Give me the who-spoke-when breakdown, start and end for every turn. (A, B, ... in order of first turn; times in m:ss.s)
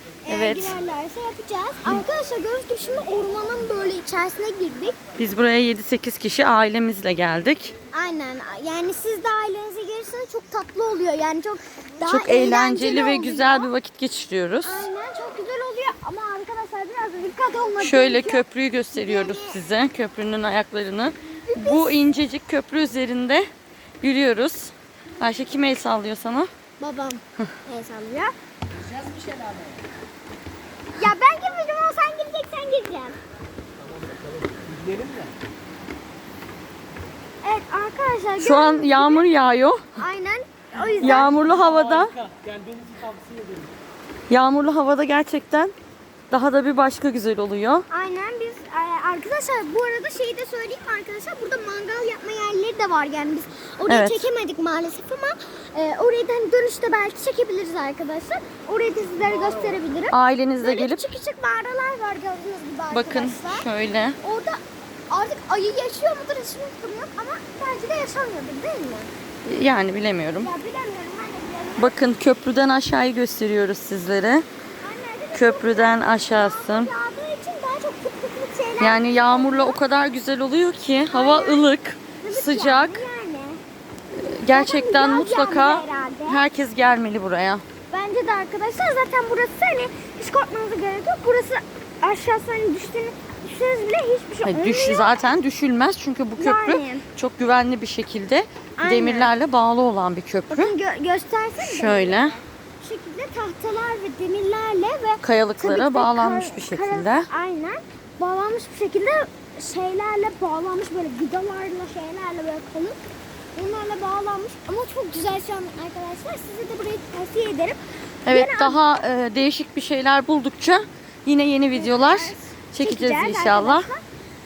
0:00.2-0:05.0 A
0:00.3-0:00.8 B
0:05.2-0:07.7 B
0:07.9-0:13.7 A
0:12.0-0:14.9 B
0:14.6-0:19.6 A
0:17.8-0:23.5 B
0:21.5-0:22.0 A
0:24.0-0:26.5 B
0:26.8-0:28.3 A
0:31.0-0:33.2 A
0:34.1-0:35.3 C
0:37.4-0:39.2 A
0:38.4-0:39.9 B
0:40.0-0:41.4 A
0:41.0-0:42.1 B
0:41.5-0:43.7 C
0:44.3-0:45.7 B
0:46.3-0:47.8 B
0:47.9-1:03.7 A
0:53.9-0:54.2 B
1:00.1-1:01.0 B
1:02.9-1:04.2 B
1:04.2-1:04.6 A
1:05.1-1:09.1 A
1:09.4-1:10.5 B
1:10.4-1:12.0 A
1:11.8-1:14.4 B
1:14.8-1:19.8 A
1:15.3-1:16.9 B
1:18.8-1:23.0 B
1:21.1-1:21.7 A
1:22.2-1:23.6 A
1:24.2-1:27.6 B
1:24.5-1:26.4 A
1:27.9-1:35.3 A
1:34.4-1:40.7 B
1:36.4-1:37.0 A
1:38.8-1:39.3 A
1:40.5-1:53.0 A
1:41.6-1:42.3 B
1:45.2-1:47.3 B
1:53.6-1:58.8 A
1:58.2-2:03.9 B
2:01.7-2:04.0 A